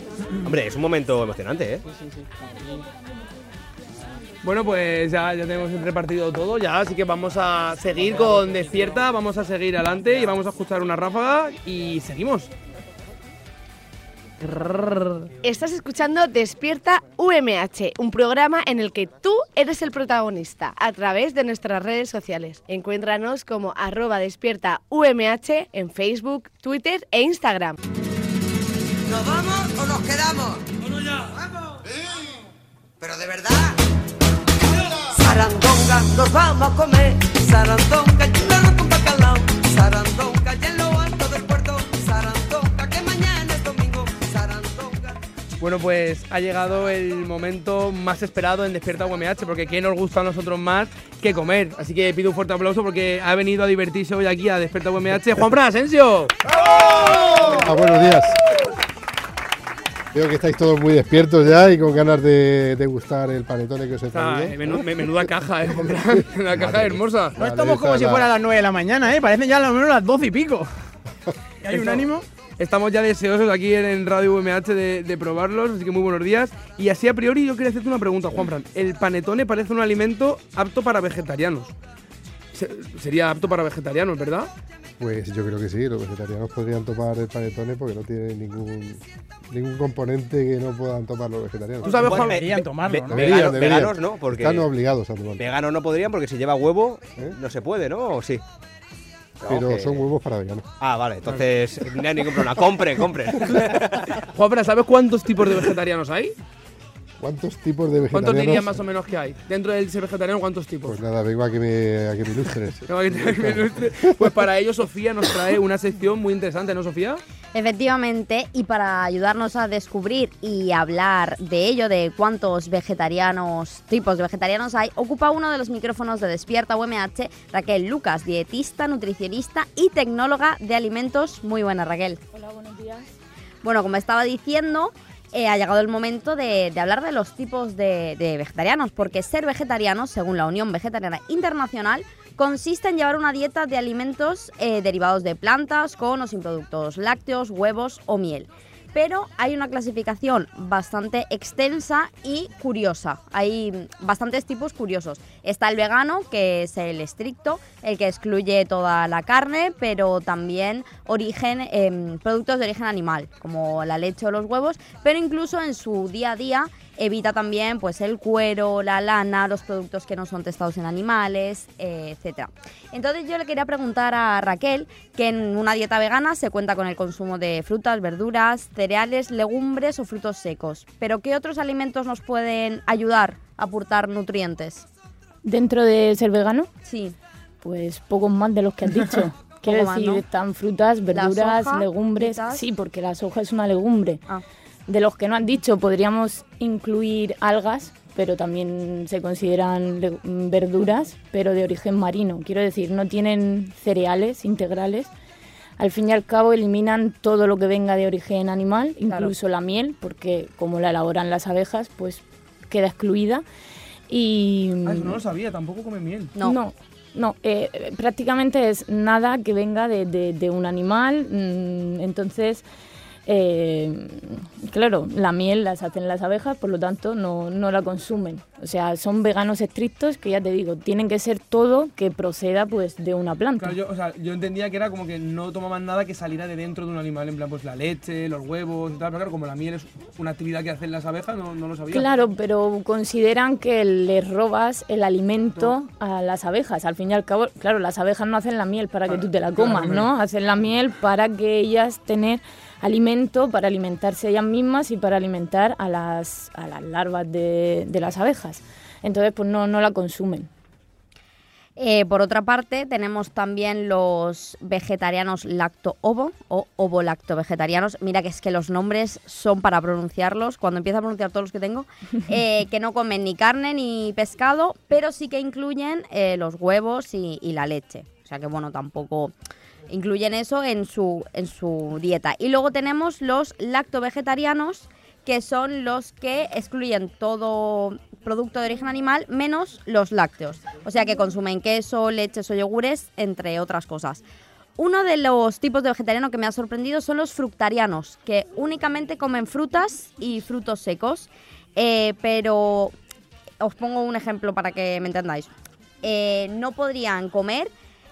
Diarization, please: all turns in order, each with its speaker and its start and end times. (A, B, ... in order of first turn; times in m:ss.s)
0:00.4-0:01.8 A
0:01.9-0:02.8 B
0:04.4-0:12.5 C
0:08.2-0:08.6 B
0:14.4-0:15.3 C
0:15.4-0:27.8 D
0:29.1-0:30.6 E
0:33.0-0:33.7 E
0:35.0-0:45.1 E
0:45.6-0:56.3 C
0:57.2-0:57.7 C
0:57.3-0:58.4 F
1:00.1-1:04.9 F
1:04.1-1:07.4 C
1:05.8-1:08.3 F
1:07.4-1:10.7 B
1:11.6-1:12.2 B
1:11.7-1:12.1 C
1:12.6-1:21.7 C
1:22.5-1:24.5 C
1:25.0-1:32.0 F
1:31.8-1:32.6 C
1:31.9-1:33.5 B
1:31.9-1:34.7 A
1:33.0-1:35.4 F
1:35.4-1:38.4 A
1:39.4-1:40.0 A
1:39.4-1:40.7 F
1:40.8-1:44.1 A
1:44.3-1:46.3 C
1:47.2-1:48.7 F
1:48.1-1:51.0 C
1:50.8-1:54.2 F
1:52.8-1:57.2 C
1:57.5-2:12.2 G
2:12.3-2:13.1 H
2:13.6-3:04.8 G
3:05.4-3:06.7 H
3:06.8-3:07.2 G
3:07.6-3:14.2 H
3:09.6-3:10.2 G
3:11.1-3:12.6 G
3:14.9-3:25.1 H
3:25.8-3:33.4 H
3:34.1-3:35.2 H
3:34.8-3:36.3 C
3:36.4-3:42.6 H
3:43.2-3:53.8 H
3:53.6-4:02.1 C
4:01.9-4:20.5 H
4:09.5-4:10.1 C
4:21.8-4:39.3 G
4:39.9-4:54.2 G
4:54.8-5:02.9 G
5:03.6-5:07.7 G